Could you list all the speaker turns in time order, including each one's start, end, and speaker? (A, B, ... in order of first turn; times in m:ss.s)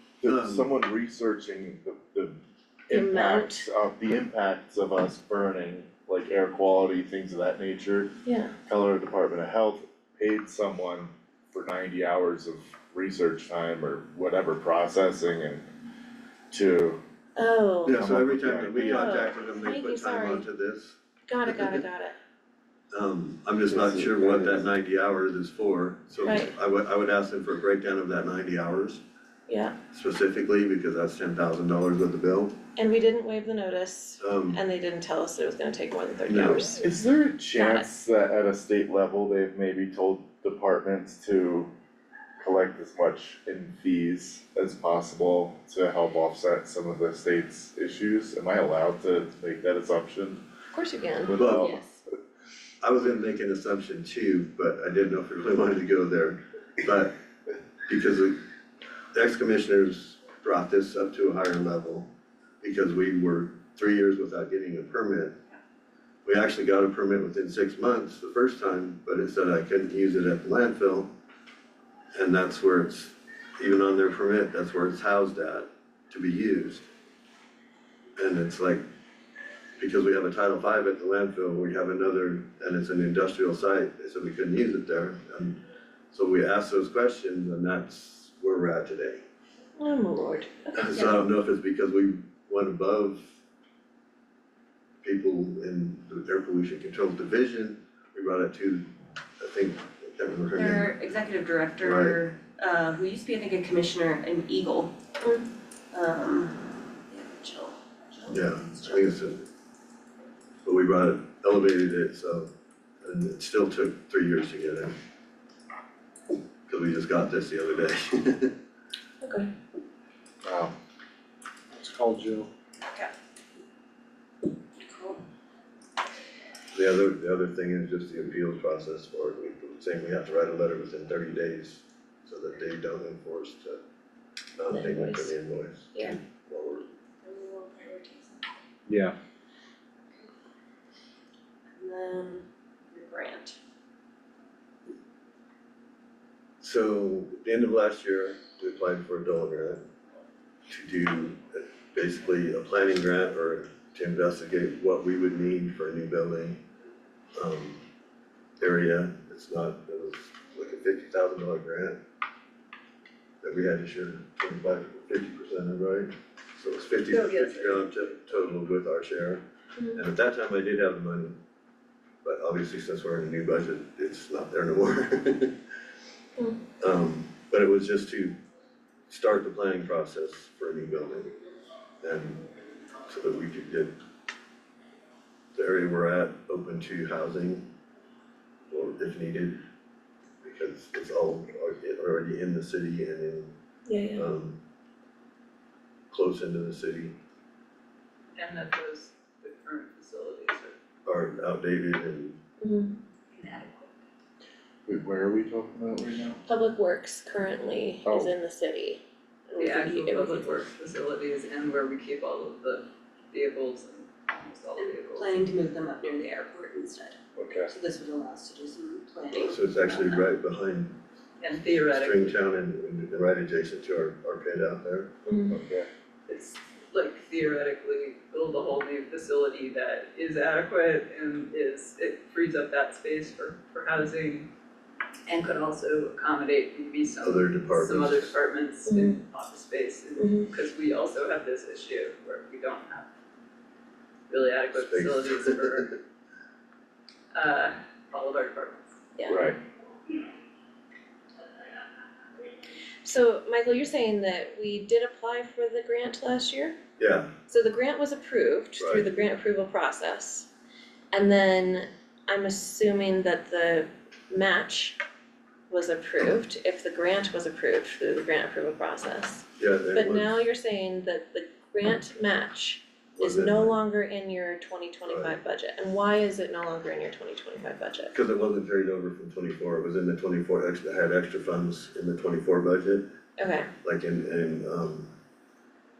0:00.2-0:08.1 A
0:00.2-0:00.6 B
0:02.9-0:03.6 C
0:08.2-0:08.5 C
0:08.6-0:15.6 A
0:16.5-0:17.0 A
0:17.4-0:18.0 C
0:17.8-0:21.0 B
0:17.9-0:19.1 A
0:18.8-0:20.4 C
0:21.3-0:22.2 C
0:22.9-0:29.0 B
0:23.7-0:24.6 A
0:26.2-0:26.5 C
0:29.5-0:29.7 C
0:29.9-0:32.6 B
0:32.8-0:36.9 C
0:34.2-0:34.6 B
0:36.2-0:36.6 B
0:36.8-0:41.7 A
0:37.5-0:37.9 C
0:42.4-0:50.4 A
0:50.7-0:51.6 C
0:51.2-0:51.8 A
0:51.4-0:51.8 B
0:51.6-0:51.9 D
0:52.8-0:57.1 B
0:57.9-0:58.4 B
0:59.1-1:02.1 B
1:02.6-1:05.4 B
1:06.2-1:11.1 B
1:12.1-1:16.9 B
1:18.2-1:18.8 B
1:19.8-1:25.6 B
1:26.1-1:29.2 B
1:29.8-1:30.8 C
1:30.7-1:33.4 B
1:30.9-1:31.2 D
1:35.0-1:38.8 B
1:39.4-1:40.9 B
1:40.5-1:45.0 D
1:41.8-1:42.2 B
1:45.2-1:45.5 C
1:45.9-1:49.2 D
1:48.3-1:49.4 B
1:50.6-1:52.5 B
1:53.0-1:54.9 B
1:56.7-1:58.5 B
1:59.2-1:59.5 C
2:00.4-2:00.7 A
2:01.8-2:02.5 A
2:04.8-2:05.2 D
2:06.7-2:13.8 B
2:14.6-2:16.9 B
2:14.7-2:15.4 C
2:17.2-2:18.4 C
2:18.9-2:19.1 A
2:21.7-2:23.6 C
2:26.6-2:29.8 B
2:30.7-2:36.6 B
2:37.3-2:37.8 B
2:38.6-2:42.0 B
2:43.4-2:49.4 B
2:47.1-2:47.9 E
2:49.8-2:50.0 C
2:50.0-2:51.4 B
2:52.2-2:55.5 B
2:56.8-2:58.3 B
2:59.1-3:01.3 B
3:02.0-3:02.4 B
3:03.1-3:03.9 B
3:05.5-3:07.7 B
3:08.7-3:09.6 B
3:10.4-3:13.5 B
3:13.8-3:14.3 C
3:14.1-3:14.6 B
3:16.1-3:17.2 B
3:18.4-3:20.8 E
3:21.0-3:22.4 B
3:22.6-3:23.0 C
3:23.4-3:23.8 D
3:23.4-3:23.6 E
3:24.8-3:26.4 A
3:26.4-3:30.4 C
3:28.0-3:28.3 A
3:29.6-3:35.4 E
3:34.8-3:40.3 D
3:37.3-3:37.7 A
3:39.3-3:41.0 B
3:41.4-3:42.3 E
3:41.9-3:45.1 B
3:45.2-3:45.6 C
3:45.5-3:45.9 A
3:46.3-3:54.5 E
3:55.3-4:03.1 E
3:57.2-3:58.3 B
3:58.9-3:59.2 C
4:00.2-4:00.5 C
4:04.3-4:05.9 E
4:04.7-4:05.9 B
4:07.3-4:09.0 E
4:09.3-4:09.6 A
4:13.0-4:16.8 C
4:17.0-4:17.3 B
4:17.5-4:20.5 C
4:18.8-4:19.2 B
4:21.1-4:25.0 C
4:25.7-4:38.1 C
4:29.6-4:30.4 B
4:33.2-4:33.8 B
4:35.1-4:35.4 B
4:38.1-4:43.0 B
4:43.4-4:43.7 C
4:43.8-4:45.1 B